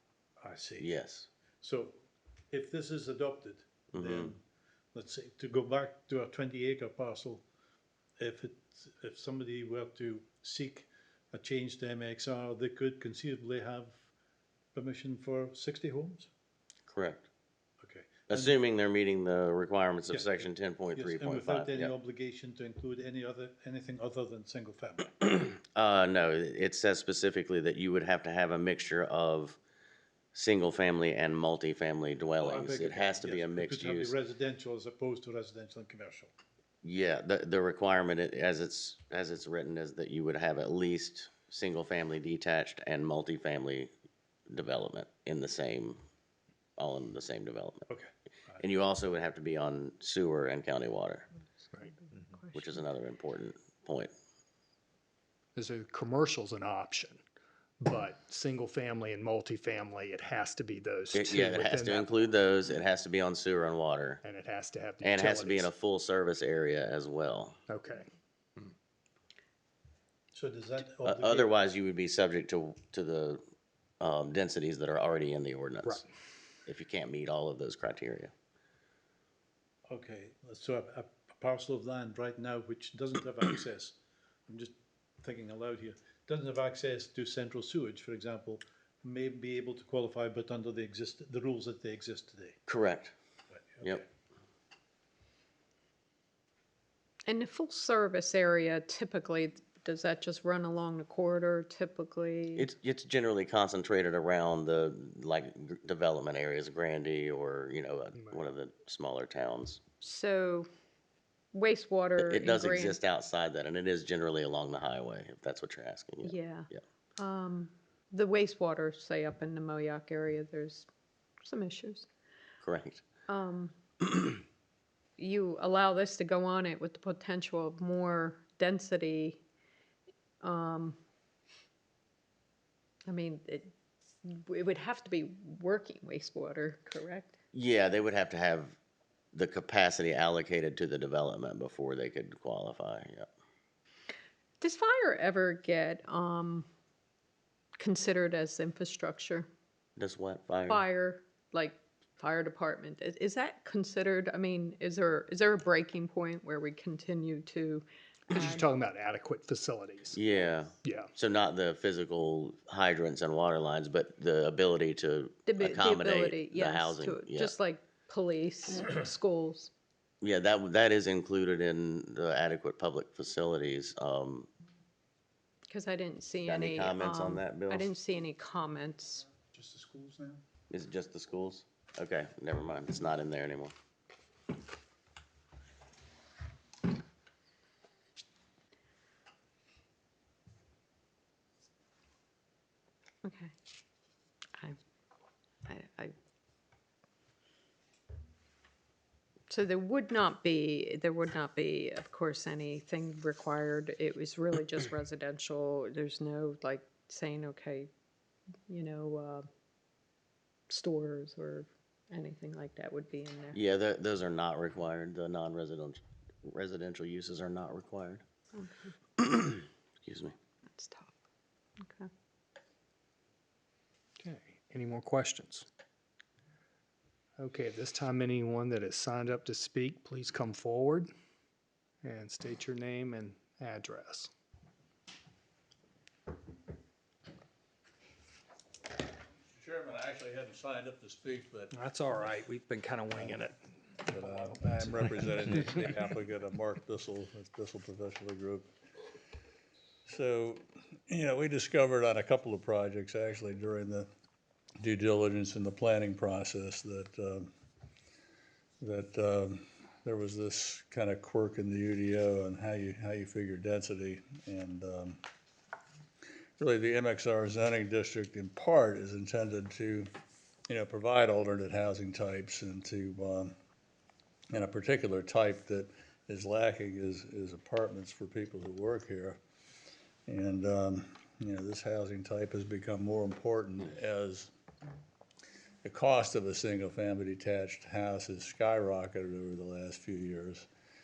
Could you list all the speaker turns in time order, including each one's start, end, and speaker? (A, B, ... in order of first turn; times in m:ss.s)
0:00.4-0:00.9 A
0:00.8-0:01.3 B
0:01.6-0:04.4 A
0:03.9-0:04.3 B
0:04.9-0:07.4 A
0:08.2-0:14.1 A
0:14.7-0:16.3 A
0:16.9-0:17.3 B
0:17.8-0:18.5 A
0:18.3-0:21.9 B
0:20.1-0:25.1 A
0:25.2-0:29.6 B
0:30.3-0:34.1 B
0:32.3-0:36.3 A
0:36.8-0:43.9 B
0:44.5-0:46.0 B
0:46.8-0:47.9 B
0:47.9-0:48.6 A
0:48.6-0:51.3 B
0:52.0-0:52.6 C
0:52.5-0:54.1 B
0:55.6-0:57.2 D
0:57.8-1:02.1 D
1:01.1-1:04.2 B
1:04.2-1:05.7 D
1:05.0-1:07.6 B
1:07.7-1:08.1 D
1:10.3-1:11.6 A
1:11.0-1:13.4 B
1:14.0-1:16.0 B
1:16.7-1:18.3 B
1:19.9-1:24.0 A
1:24.5-1:32.6 A
1:32.7-1:33.1 B
1:33.5-1:34.1 A
1:37.3-1:42.7 C
1:42.6-1:49.8 B
1:48.1-1:48.4 D
1:50.0-1:50.7 C
1:51.5-1:53.0 C
1:52.2-1:56.8 B
1:56.2-2:00.9 C
2:01.4-2:02.1 C
2:02.6-2:03.0 B
2:03.3-2:03.8 C
2:05.2-2:09.4 C
2:10.4-2:11.0 C
2:13.1-2:13.7 C
2:14.2-2:17.4 C
2:17.5-2:18.8 B
2:19.3-2:23.3 B
2:24.6-2:26.7 C
2:27.8-2:29.5 C
2:30.0-2:30.8 B
2:30.7-2:38.7 C
2:38.3-2:40.2 D
2:40.1-2:47.6 B
2:40.8-2:41.1 D
2:45.5-2:49.7 C
2:50.2-2:54.5 B
2:55.7-2:59.3 C
2:56.5-2:57.9 B
2:59.5-3:00.4 A
3:00.7-3:03.7 B
3:13.2-3:13.5 C
3:15.7-3:16.2 C
3:19.5-3:27.9 C
3:28.7-3:29.5 C
3:30.7-3:33.6 C
3:33.5-3:38.2 B
3:38.6-3:38.9 C
3:39.2-3:40.4 B
3:40.7-3:41.2 C
3:41.8-3:42.1 C
3:44.2-3:45.7 D
3:47.4-3:51.1 D
3:52.0-3:54.3 D
3:59.6-4:01.7 E
4:01.7-4:03.6 D
4:04.1-4:06.0 D
4:04.1-4:08.7 E
4:10.1-4:14.1 E
4:14.8-4:17.5 E
4:18.8-4:25.2 E
4:26.6-4:30.1 E
4:30.7-4:33.5 E
4:34.5-4:39.4 E
4:40.3-4:44.5 E
4:45.8-4:50.7 E